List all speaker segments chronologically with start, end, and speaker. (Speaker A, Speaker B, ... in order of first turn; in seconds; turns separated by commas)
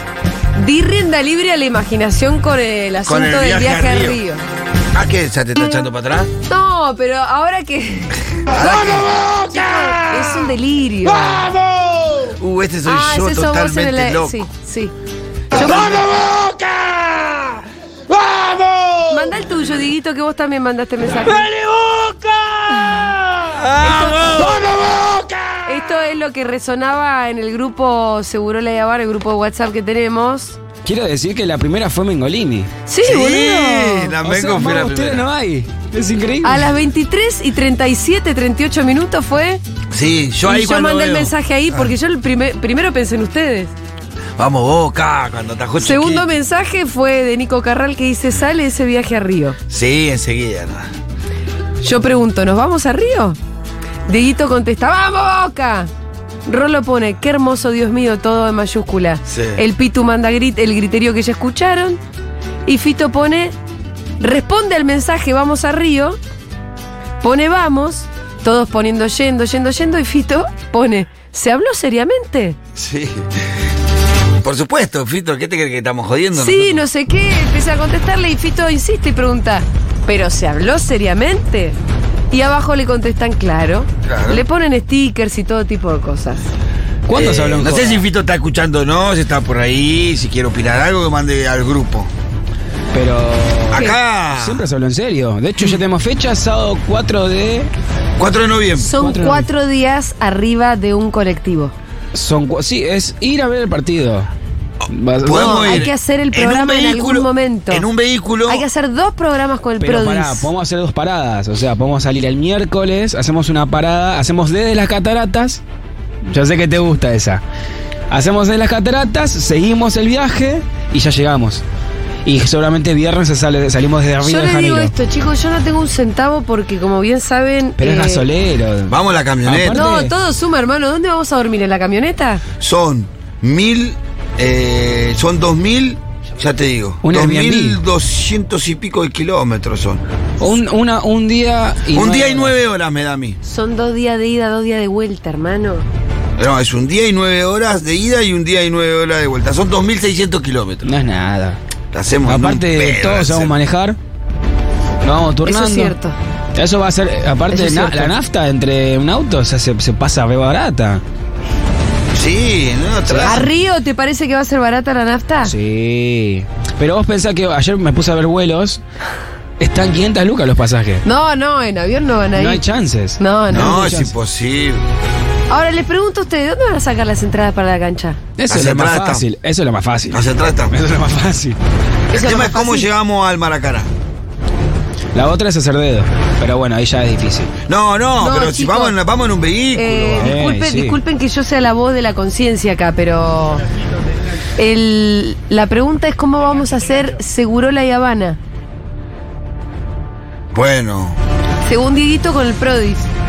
Speaker A: 0.6-4.4, Speaker B: 3.0-4.2, Speaker B: 4.9-6.3, Speaker A: 6.5-11.5, Speaker B: 8.5-10.5, Speaker B: 11.5-14.4, Speaker A: 12.9-14.9, Speaker B: 15.5-19.3, Speaker A: 15.5-16.1, Speaker A: 19.1-21.5, Speaker B: 21.1-25.8, Speaker A: 23.8-24.6, Speaker A: 25.7-30.6, Speaker C: 30.9-32.7, Speaker A: 32.9-34.1, Speaker B: 33.0-35.3, Speaker C: 34.2-36.6, Speaker A: 36.4-39.6, Speaker B: 39.9-42.0, Speaker A: 40.5-43.7, Speaker B: 44.4-46.3, Speaker A: 45.8-49.6, Speaker B: 49.7-50.9, Speaker A: 51.8-53.4, Speaker A: 54.1-55.9, Speaker A: 56.5-62.0, Speaker B: 59.3-59.6, Speaker A: 62.7-63.5, Speaker A: 64.2-66.2, Speaker A: 67.2-72.6, Speaker B: 72.8-73.3, Speaker B: 74.4-76.8, Speaker A: 76.3-81.8, Speaker A: 82.3-86.5, Speaker B: 84.0-84.4, Speaker C: 87.1-88.0, Speaker B: 87.1-92.1, Speaker C: 92.9-97.7, Speaker B: 93.7-94.6, Speaker B: 98.2-98.9, Speaker A: 98.8-101.7, Speaker C: 99.0-99.5, Speaker C: 102.1-104.3, Speaker C: 104.9-105.9, Speaker B: 105.2-108.7, Speaker A: 105.3-107.9, Speaker A: 108.5-110.5, Speaker C: 109.8-115.6, Speaker C: 116.3-117.4, Speaker C: 118.1-121.6, Speaker C: 122.2-124.9, Speaker A: 124.2-128.3, Speaker C: 127.8-130.1, Speaker B: 128.9-129.8, Speaker A: 129.7-132.4, Speaker B: 132.6-140.0, Speaker C: 137.0-137.8, Speaker C: 140.4-142.5, Speaker B: 141.9-143.4, Speaker A: 143.4-145.9, Speaker B: 146.4-150.9, Speaker C: 150.8-151.6, Speaker B: 151.9-153.6, Speaker C: 152.2-154.0, Speaker C: 155.0-156.0, Speaker A: 155.5-156.2, Speaker C: 156.6-161.0, Speaker A: 157.5-158.1, Speaker B: 162.1-163.4, Speaker C: 163.1-163.4, Speaker A: 163.2-165.5, Speaker C: 165.4-168.8, Speaker C: 169.6-171.0, Speaker A: 171.1-172.7, Speaker C: 172.4-174.1, Speaker A: 173.2-173.9, Speaker B: 173.5-174.8, Speaker A: 175.5-178.2, Speaker C: 178.4-181.6, Speaker B: 178.5-179.2, Speaker B: 180.1-180.7, Speaker A: 182.1-182.9, Speaker B: 182.1-183.9, Speaker C: 185.2-187.5, Speaker B: 187.7-190.3, Speaker A: 188.2-189.0, Speaker A: 189.7-193.7, Speaker C: 190.2-191.0, Speaker A: 194.6-198.4, Speaker B: 200.5-201.2, Speaker A: 201.7-203.1